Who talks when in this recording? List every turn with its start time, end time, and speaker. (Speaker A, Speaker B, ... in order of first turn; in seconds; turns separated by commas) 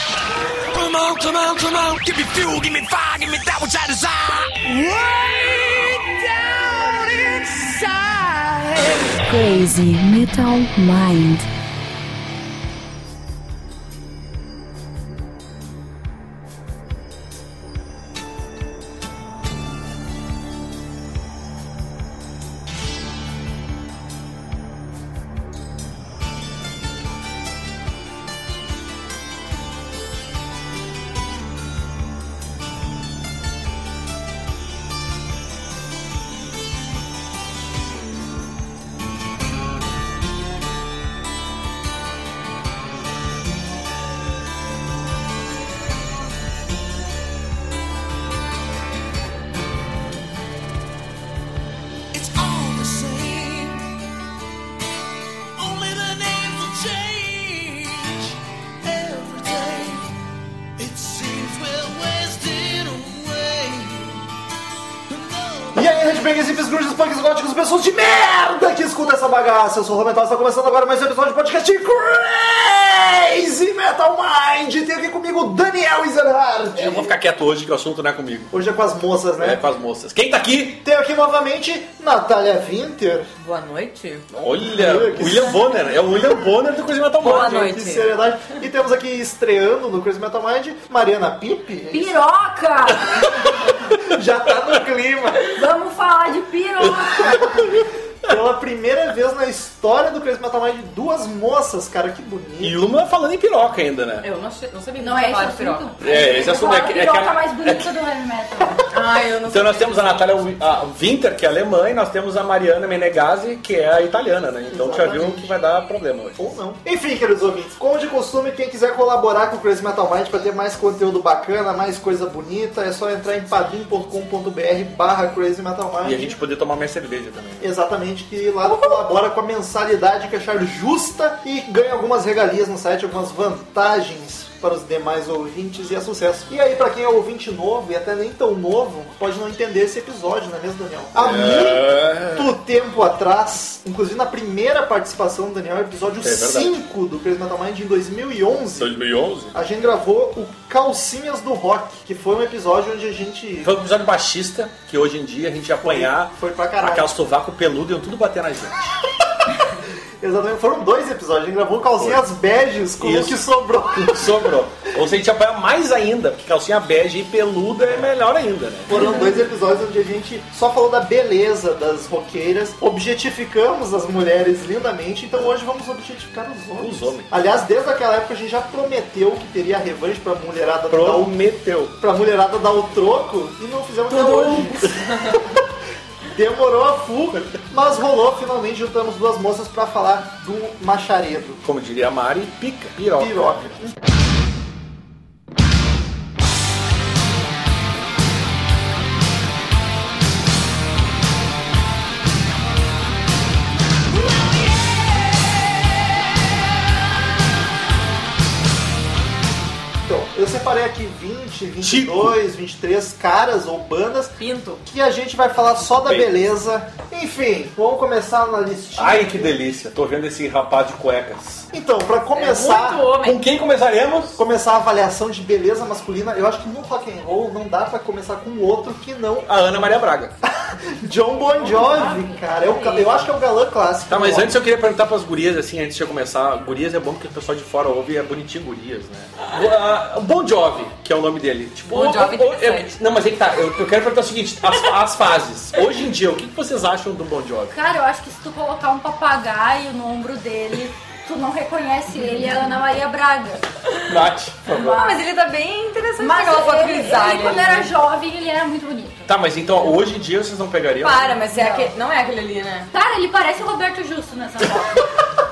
Speaker A: 0.6-9.3, Speaker B: 9.3-11.5, Speaker A: 52.1-53.9, Speaker A: 55.6-60.1, Speaker A: 60.8-64.2, Speaker A: 65.1-66.2, Speaker C: 65.7-77.1, Speaker D: 76.7-78.5, Speaker C: 78.5-79.6, Speaker D: 79.4-80.8, Speaker C: 80.8-83.3, Speaker E: 83.4-84.2, Speaker C: 84.3-85.6, Speaker D: 84.4-87.7, Speaker E: 87.2-88.1, Speaker C: 87.2-92.2, Speaker F: 91.9-93.2, Speaker C: 93.3-95.6, Speaker F: 95.5-97.7, Speaker C: 97.2-97.6, Speaker C: 98.2-102.8, Speaker D: 102.6-104.2, Speaker E: 104.2-105.9, Speaker F: 105.0-108.8, Speaker D: 106.0-108.0, Speaker E: 108.9-110.2, Speaker D: 109.5-116.4, Speaker C: 114.7-115.5, Speaker C: 116.4-126.4, Speaker D: 126.0-127.7, Speaker C: 127.6-148.9, Speaker E: 128.7-128.9, Speaker D: 141.1-142.5, Speaker D: 146.2-146.7, Speaker D: 148.8-149.5, Speaker C: 149.5-153.7, Speaker D: 153.6-158.7, Speaker C: 155.8-157.1, Speaker C: 160.2-164.5, Speaker D: 163.0-163.4, Speaker D: 164.0-169.2, Speaker C: 168.9-181.3, Speaker D: 176.8-177.3, Speaker D: 180.9-181.9, Speaker C: 182.0-185.0, Speaker D: 184.1-184.8, Speaker C: 186.2-191.6, Speaker D: 191.6-193.6, Speaker C: 193.1-193.9, Speaker C: 210.0-219.6, Speaker D: 211.8-212.3, Speaker E: 214.4-214.8, Speaker D: 216.0-216.3, Speaker D: 219.0-221.7, Speaker C: 221.7-223.1, Speaker E: 222.3-223.4, Speaker D: 223.2-224.4, Speaker C: 224.4-229.6, Speaker D: 229.4-230.3, Speaker C: 230.6-234.6, Speaker F: 231.6-232.4, Speaker E: 231.8-233.2, Speaker D: 234.1-247.7, Speaker E: 241.9-243.0, Speaker F: 247.7-253.7, Speaker D: 254.1-255.0, Speaker F: 254.6-255.2, Speaker E: 254.8-257.9, Speaker F: 256.2-259.3, Speaker D: 259.3-261.4, Speaker E: 261.0-262.9, Speaker F: 261.5-261.9, Speaker F: 262.9-265.1